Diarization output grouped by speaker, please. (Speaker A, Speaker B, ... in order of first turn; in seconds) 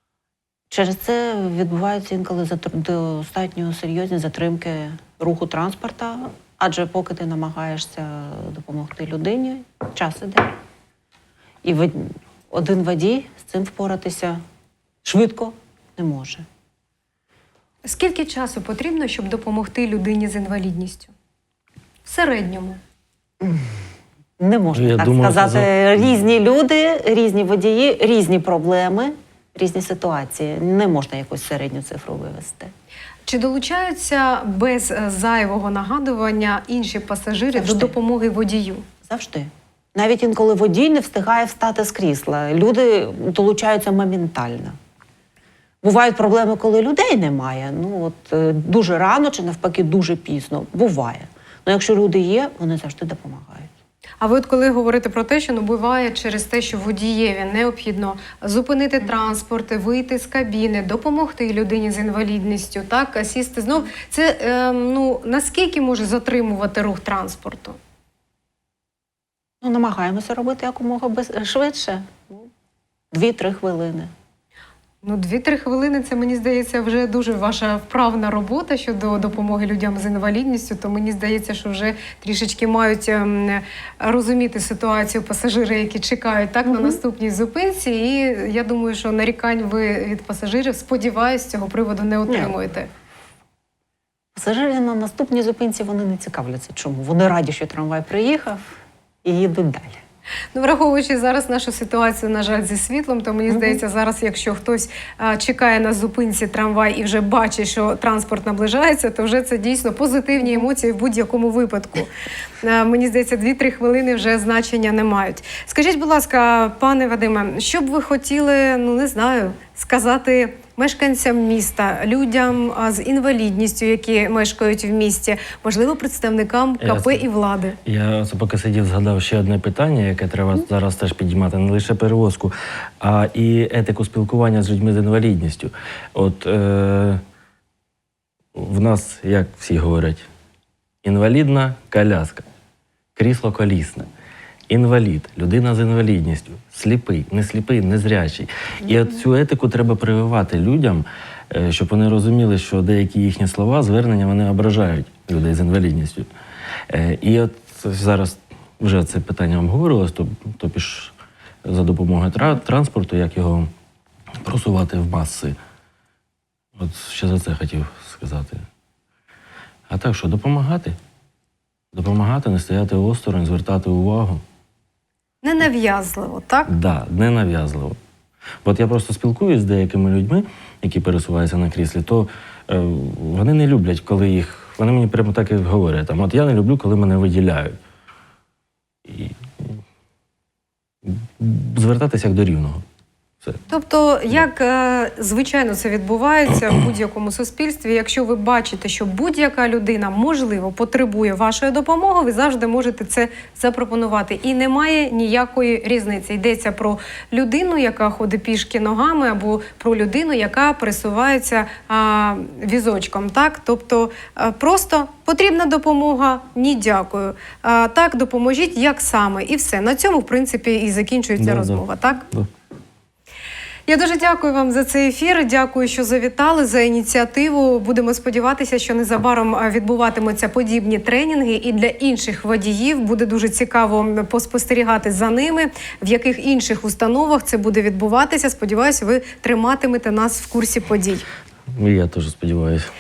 Speaker A: 0.7-10.6, 11.6-14.4, 15.0-16.5, 23.4-23.7, 24.4-32.7, 37.5-38.0, 39.0-44.8, 45.8-53.7, 69.6-72.5, 73.1-74.1, 86.7-87.0, 92.3-92.5, 94.3-100.0, 103.5-103.8
Speaker B: 17.9-21.1, 22.1-22.8, 33.3-38.9, 54.2-67.8, 75.0-92.9, 100.5-112.1, 112.6-127.8, 175.4-176.7, 193.7-222.2, 223.9-241.3
Speaker C: 24.7-26.1, 126.8-127.3, 127.8-137.2, 138.6-140.3, 141.0-142.5, 143.2-144.1, 144.7-156.3, 156.9-161.1, 161.7-163.7, 164.4-165.6, 166.8-168.7, 169.9-171.0, 171.9-174.4, 176.7-178.0, 178.6-187.8, 189.1-189.8, 191.1-192.8, 221.4-222.5, 241.7-242.9